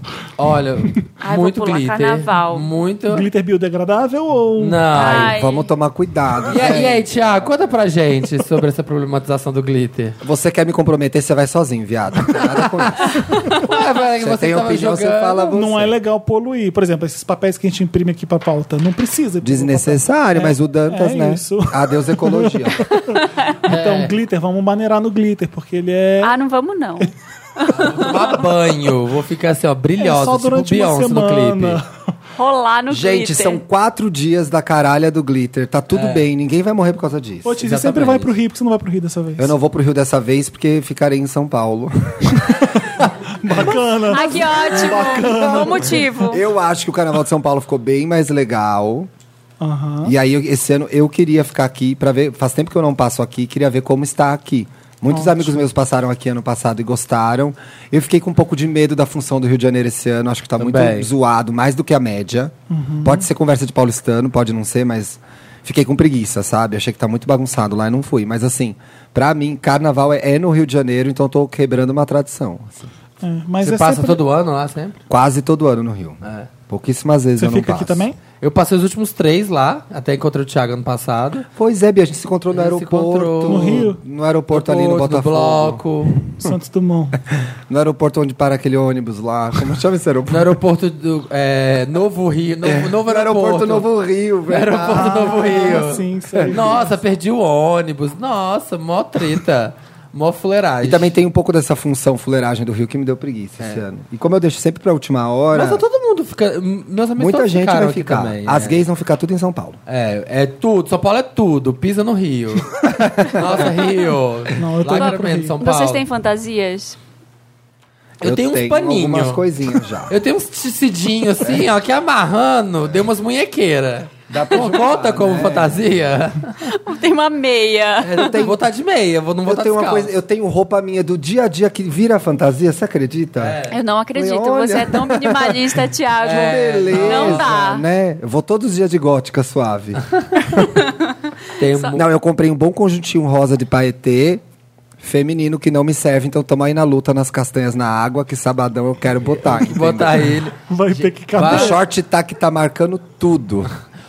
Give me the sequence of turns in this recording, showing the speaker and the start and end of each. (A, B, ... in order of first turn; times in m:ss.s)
0:00.4-0:03.3 A
0:01.2-0:02.7 B
0:03.1-0:04.8 C
0:04.6-0:05.3 A
0:04.9-0:07.0 D
0:04.9-0:05.7 B
0:06.5-0:10.2 A
0:10.2-0:16.0 D
0:12.3-0:12.7 A
0:13.5-0:15.5 A
0:15.5-0:26.3 C
0:19.4-0:22.8 D
0:23.1-0:23.5 B
0:23.7-0:24.1 A
0:26.2-0:28.4 B
0:27.7-0:31.8 A
0:30.0-0:32.1 C
0:32.4-0:33.6 B
0:32.9-0:37.6 D
0:35.9-0:36.2 A
0:37.4-0:39.5 C
0:37.6-0:38.3 A
0:39.4-0:42.6 D
0:43.4-0:46.1 C
0:43.4-0:49.1 D
0:44.1-0:46.4 B
0:49.6-0:50.1 C
0:50.0-1:12.9 D
0:55.1-0:55.6 C
1:00.6-1:01.1 A
1:02.7-1:03.2 C
1:13.2-1:14.2 C
1:13.6-1:14.9 A
1:15.1-1:18.0 D
1:16.2-1:16.5 A
1:17.4-1:18.2 C
1:18.4-1:21.5 A
1:21.6-1:26.5 D
1:22.5-1:23.9 A
1:23.4-1:24.0 C
1:24.5-1:26.2 A
1:26.4-1:27.2 C
1:27.3-1:30.6 D
1:30.3-1:33.9 A
1:32.6-1:36.7 D
1:34.5-1:41.1 A
1:34.8-1:36.9 C
1:40.8-1:45.8 D
1:45.5-1:48.8 A
1:47.2-1:49.8 D
1:49.9-1:56.0 A
1:52.8-1:53.7 D
1:54.6-1:55.6 C
1:54.9-1:57.0 B
1:58.2-1:59.4 A
1:58.2-2:00.2 D
2:00.1-2:06.6 A
2:04.3-2:05.8 D
2:06.6-2:08.3 B
2:08.0-2:08.6 D
2:08.3-2:10.1 A
2:09.4-2:13.6 D
2:13.4-2:13.8 A
2:13.7-2:17.8 B
2:14.1-2:20.7 D
2:16.2-2:17.5 A
2:20.5-2:21.1 B
2:21.6-2:22.0 A
2:21.7-2:21.9 B
2:21.9-2:24.4 D
2:25.0-2:30.4 D
2:29.4-2:31.8 A
2:30.7-2:31.8 C
2:31.4-2:33.7 D